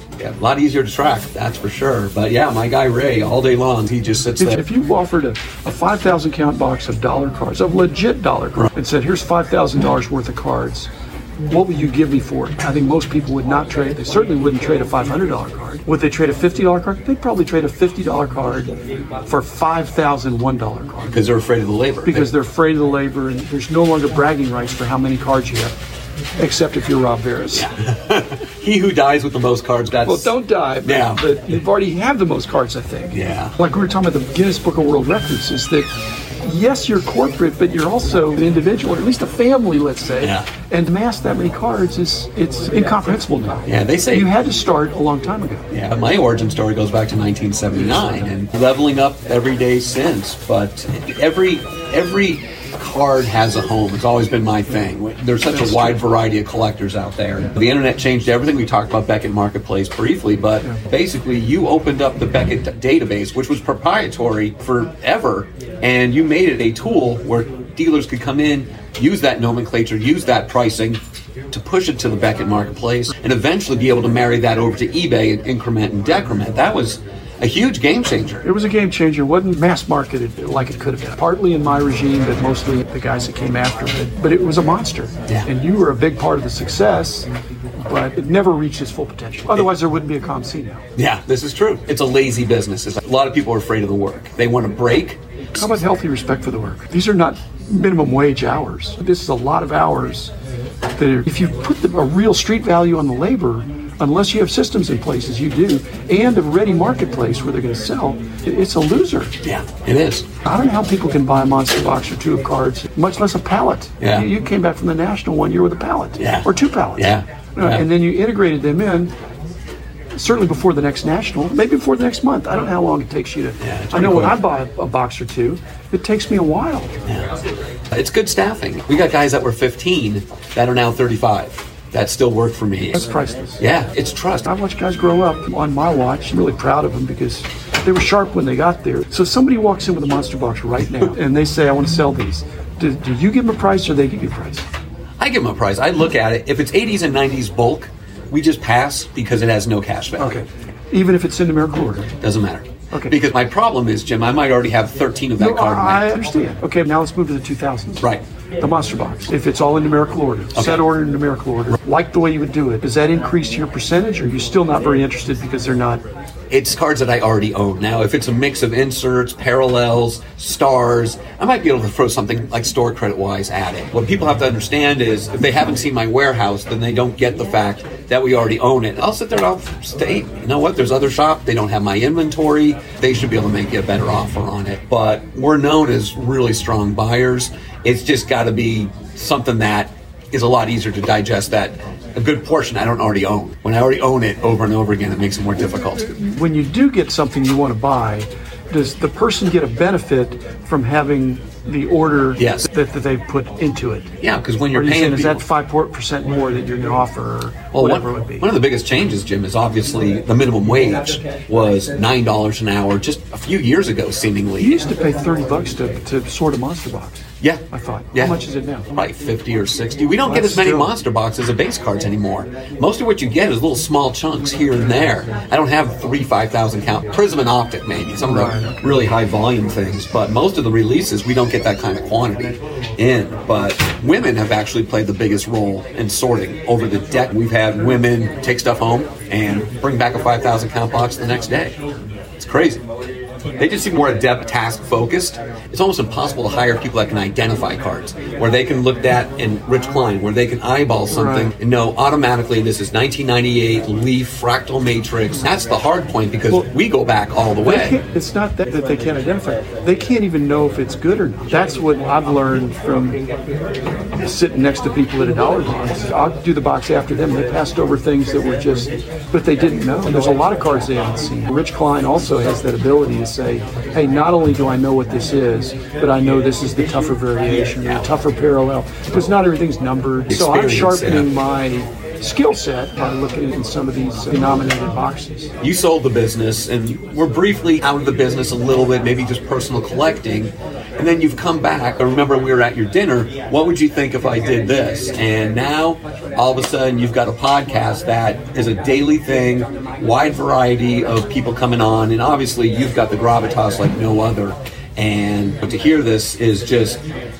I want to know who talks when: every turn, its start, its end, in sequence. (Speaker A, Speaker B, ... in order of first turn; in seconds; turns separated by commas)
Speaker A: 0.2-4.6, Speaker B: 4.4-10.9, Speaker B: 11.5-18.7, Speaker B: 19.3-21.2, Speaker A: 21.1-22.3, Speaker B: 22.0-25.7, Speaker B: 26.4-27.7, Speaker A: 27.5-31.2, Speaker B: 30.0-35.9, Speaker A: 33.1-33.5, Speaker B: 36.4-45.7, Speaker A: 40.2-40.5, Speaker A: 43.7-44.3, Speaker A: 45.7-71.0, Speaker B: 55.5-56.0, Speaker A: 71.5-78.4, Speaker B: 78.4-87.3, Speaker B: 87.8-90.8, Speaker A: 91.0-95.2, Speaker B: 95.5-100.3, Speaker B: 101.0-109.3, Speaker A: 109.4-110.2, Speaker B: 110.4-119.1, Speaker A: 114.0-114.3, Speaker A: 116.2-116.5, Speaker A: 117.0-117.8, Speaker B: 120.1-126.9, Speaker A: 123.6-124.4, Speaker A: 127.9-133.1, Speaker B: 132.9-133.6, Speaker A: 133.6-134.4, Speaker B: 134.4-144.6, Speaker A: 145.2-150.4, Speaker B: 150.2-152.1, Speaker A: 152.2-156.1, Speaker B: 155.4-158.1, Speaker B: 158.6-166.0, Speaker A: 160.5-160.8, Speaker A: 166.5-196.1, Speaker B: 196.2-204.1, Speaker A: 202.4-202.7, Speaker A: 204.2-205.4, Speaker B: 204.7-208.5, Speaker A: 207.7-214.8, Speaker B: 214.6-218.9, Speaker A: 217.4-218.3, Speaker A: 218.9-241.8, Speaker B: 220.2-220.9, Speaker B: 228.2-228.9, Speaker A: 242.4-242.8, Speaker A: 243.6-258.0, Speaker B: 251.1-251.5, Speaker B: 257.6-263.2, Speaker B: 264.2-285.5, Speaker A: 280.3-281.3, Speaker A: 285.6-307.0